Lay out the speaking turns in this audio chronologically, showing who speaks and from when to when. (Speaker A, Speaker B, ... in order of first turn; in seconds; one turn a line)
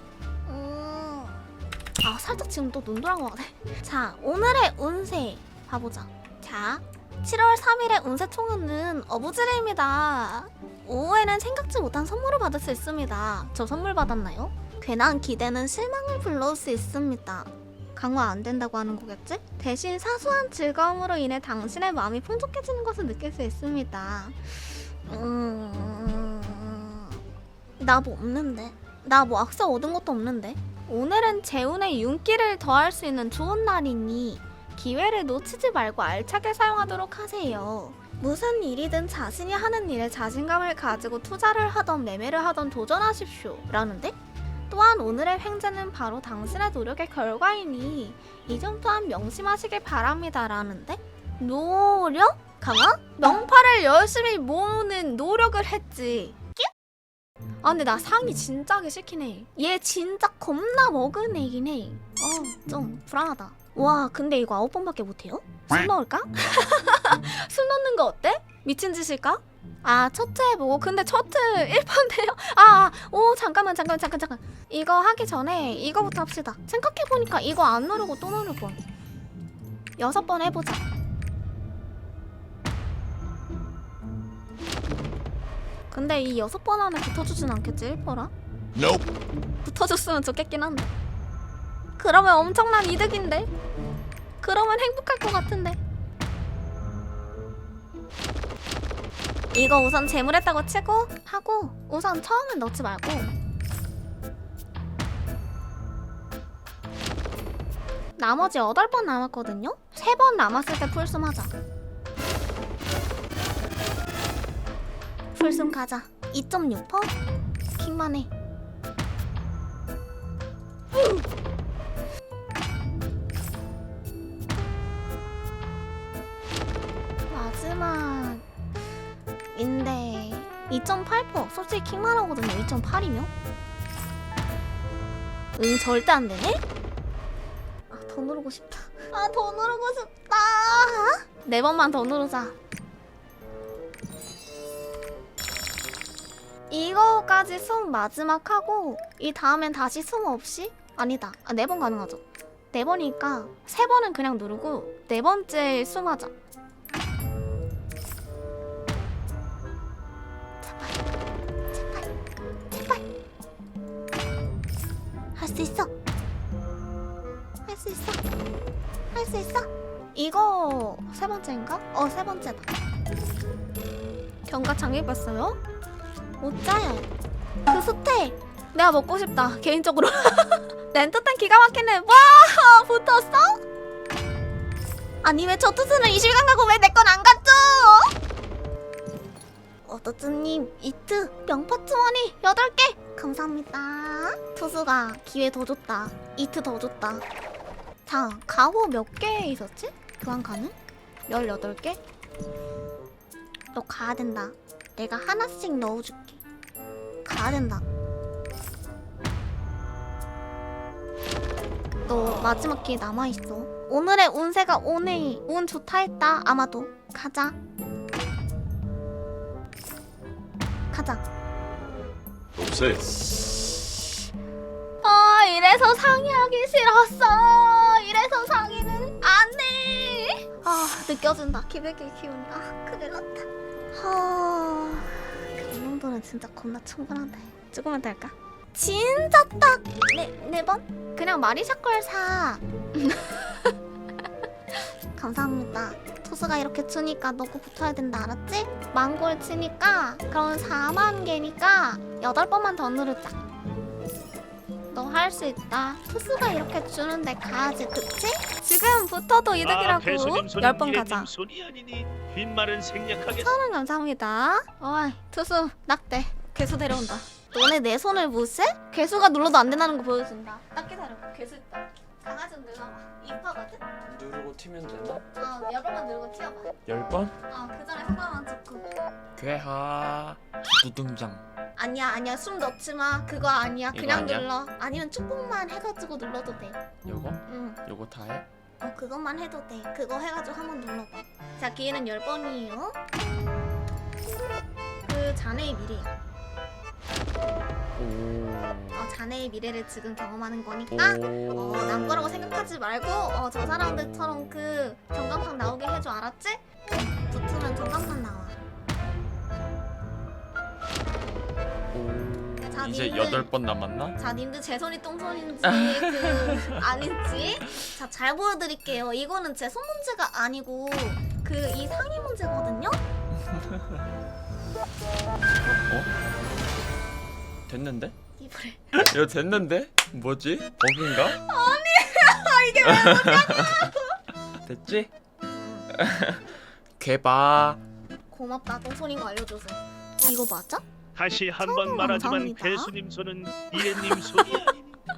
Speaker A: 0.5-1.4
Speaker A: 2.0-27.2
Speaker A: 27.8-44.2
Speaker A: 44.7-56.7
Speaker A: 57.6-78.8
Speaker A: 80.0-80.8
Speaker A: 85.9-88.3
Speaker A: 89.6-90.9
Speaker A: 92.0-93.5
Speaker A: 94.4-95.8
Speaker A: 99.5-103.3
Speaker A: 108.2-111.5
Speaker A: 115.3-117.2
Speaker A: 117.8-118.3
Speaker A: 127.3-128.4
Speaker A: 129.5-133.3
Speaker A: 135.6-136.6
Speaker A: 137.9-142.6
Speaker A: 146.7-156.3
Speaker A: 160.6-161.0
Speaker A: 161.7-162.1
Speaker A: 162.7-163.0
Speaker A: 165.3-165.9
Speaker A: 167.7-168.2
Speaker A: 169.1-172.7
Speaker A: 174.5-175.6
Speaker A: 176.4-177.1
Speaker A: 177.7-183.6
Speaker A: 185.2-188.1
Speaker A: 189.8-197.2
Speaker A: 198.1-200.8
Speaker A: 201.3-202.0
Speaker A: 203.7-206.4
Speaker A: 207.2-207.8
Speaker A: 212.1-217.6
Speaker A: 220.9-221.2
Speaker B: 222.6-223.0
Speaker A: 225.0-243.8
Speaker A: 244.7-253.4
Speaker A: 254.9-261.3
Speaker C: 259.6-263.5
Speaker A: 263.3-273.9
Speaker B: 274.1-275.2
Speaker A: 275.3-276.7
Speaker B: 276.9-277.3
Speaker A: 277.5-278.9
Speaker B: 279.4-281.4
Speaker A: 281.8-286.8
Speaker B: 283.9-284.5
Speaker B: 287.1-288.4
Speaker A: 287.5-287.8
Speaker A: 288.8-293.0
Speaker A: 295.1-296.1
Speaker B: 298.0-299.0
Speaker A: 298.9-308.6
Speaker B: 300.9-302.4
Speaker B: 311.9-314.2
Speaker A: 312.7-313.5
Speaker A: 314.2-323.0
Speaker B: 315.6-316.8
Speaker B: 327.7-328.1
Speaker A: 328.4-329.0
Speaker B: 329.1-331.4
Speaker A: 331.1-334.1
Speaker B: 332.8-333.9
Speaker B: 334.6-335.1
Speaker A: 335.5-335.9
Speaker B: 335.9-337.8
Speaker A: 338.3-340.8
Speaker C: 341.2-344.8
Speaker A: 341.6-342.9
Speaker A: 343.8-344.7